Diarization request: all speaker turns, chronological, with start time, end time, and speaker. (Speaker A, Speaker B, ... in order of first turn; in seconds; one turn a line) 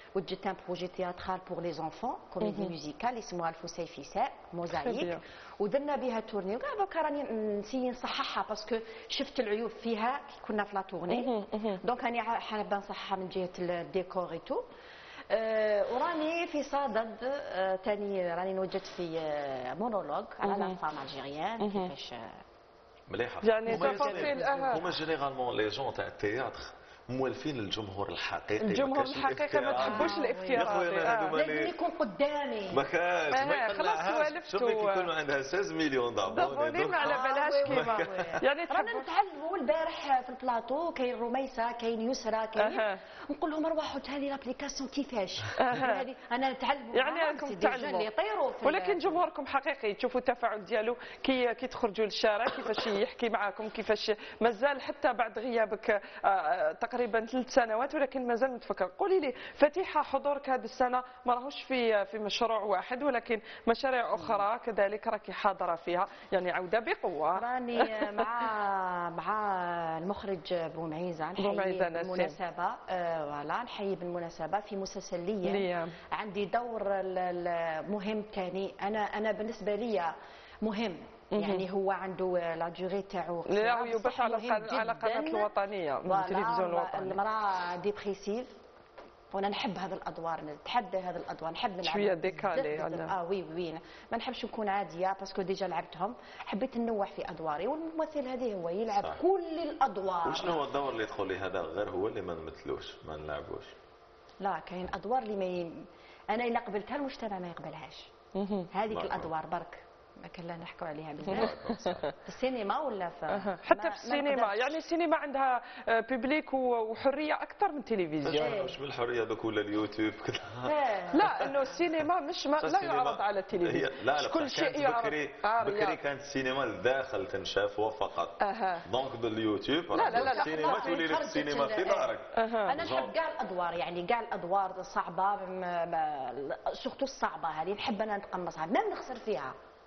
Speaker A: 0.1-14.6
Speaker B: 2.4-2.7
Speaker B: 4.8-5.2
Speaker B: 11.1-11.8
Speaker A: 15.3-22.4
Speaker B: 20.4-20.8
Speaker B: 21.6-21.9
Speaker C: 23.1-31.7
Speaker B: 23.4-24.8
Speaker A: 23.7-24.8
Speaker B: 28.6-31.3
Speaker A: 29.7-32.8
Speaker C: 32.7-38.4
Speaker B: 33.3-35.1
Speaker B: 36.3-39.0
Speaker A: 36.8-49.2
Speaker B: 42.6-43.0
Speaker B: 45.6-46.0
Speaker B: 46.9-48.1
Speaker B: 48.6-68.2
Speaker A: 64.1-64.4
Speaker A: 67.3-85.5
Speaker B: 71.4-72.3
Speaker B: 75.4-75.9
Speaker B: 81.3-81.6
Speaker B: 83.5-87.2
Speaker A: 86.0-88.5
Speaker A: 89.3-100.6
Speaker B: 91.8-93.1
Speaker C: 98.9-99.2
Speaker C: 100.2-103.7
Speaker A: 104.4-108.1
Speaker B: 108.3-108.7
Speaker A: 108.7-111.7
Speaker C: 108.9-109.3
Speaker C: 111.2-112.1
Speaker A: 112.2-114.7
Speaker B: 113.3-118.5
Speaker C: 118.2-121.6
Speaker A: 118.4-118.8
Speaker A: 120.7-121.4
Speaker B: 121.1-126.0
Speaker C: 122.6-133.1
Speaker B: 128.4-128.8
Speaker B: 129.9-131.0
Speaker A: 130.0-139.5
Speaker B: 132.3-132.7